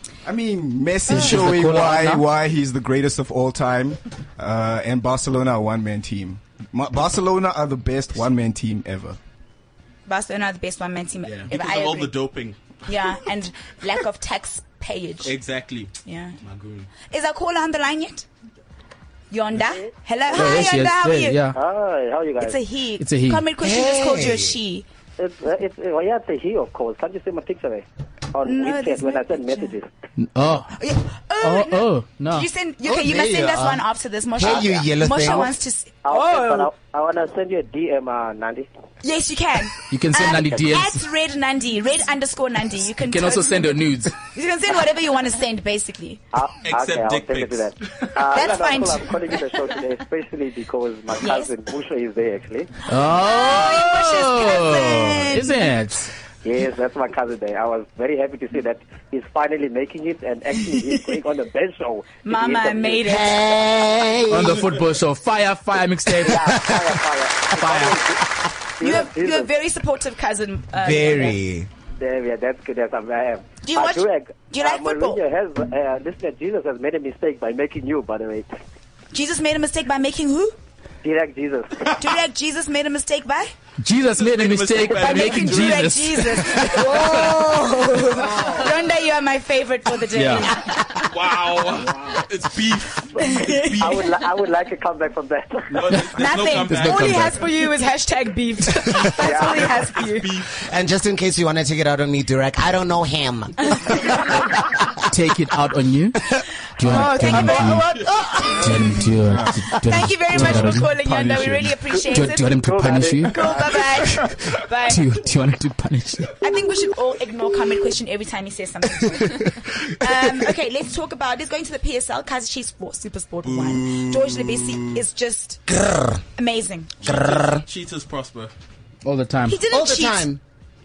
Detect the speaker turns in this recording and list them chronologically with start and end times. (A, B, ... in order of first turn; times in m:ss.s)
0:00.2-0:09.2 A
0:01.1-0:02.2 B
0:10.1-0:12.2 C
0:11.2-0:12.6 D
0:12.9-0:15.4 C
0:15.2-0:16.9 D
0:16.0-0:16.4 C
0:17.1-0:18.3 C
0:19.3-0:21.4 C
0:20.3-0:21.6 B
0:21.5-0:22.6 E
0:22.4-0:24.9 C
0:23.0-0:23.5 B
0:23.6-0:24.6 F
0:25.2-0:29.9 E
0:28.4-0:29.8 C
0:30.2-0:30.8 B
0:30.8-0:36.7 C
0:31.4-0:32.5 B
0:32.8-0:35.6 F
0:36.0-0:38.7 E
0:39.0-0:46.2 C
0:39.9-0:41.0 B
0:43.0-0:44.2 B
0:46.3-0:52.7 E
0:46.6-0:47.7 D
0:48.3-0:49.5 C
0:51.2-0:51.5 C
0:52.9-0:56.1 B
0:53.0-0:55.7 C
0:56.4-1:03.1 E
1:02.2-1:03.5 C
1:03.0-1:04.7 F
1:04.3-1:06.4 B
1:06.2-1:08.2 E
1:06.3-1:07.0 F
1:07.6-1:08.0 B
1:08.8-1:09.5 E
1:08.8-1:11.4 C
1:10.8-1:11.7 F
1:12.0-1:18.5 E
1:13.6-1:15.2 C
1:19.1-1:20.6 C
1:21.0-1:22.0 E
1:22.0-1:23.5 C
1:23.8-1:27.4 B
1:24.1-1:26.0 D
1:25.0-1:31.1 C
1:30.1-1:30.5 B
1:31.0-1:34.1 D
1:33.2-1:34.0 C
1:33.8-1:35.7 E
1:35.7-1:37.4 D
1:36.2-1:40.3 C
1:36.5-1:37.4 B
1:38.9-1:40.6 D
1:39.2-1:39.6 E
1:40.6-1:44.9 F
1:45.0-1:46.2 B
1:46.8-1:47.9 B
1:46.8-1:47.9 C
1:47.0-1:48.9 F
1:48.5-1:50.9 B
1:48.6-1:51.8 A
1:49.8-1:52.7 C
1:52.1-1:53.5 B
1:52.6-1:53.6 E
1:53.3-1:55.1 C
1:54.2-1:54.5 A
1:54.9-1:56.4 B
1:56.4-2:05.6 C
2:03.4-2:04.8 D
2:05.7-2:06.2 F
2:06.4-2:07.0 C
2:07.0-2:08.5 D
2:07.0-2:07.6 F
2:09.0-2:09.6 B
2:09.5-2:10.3 C
2:09.7-2:10.4 F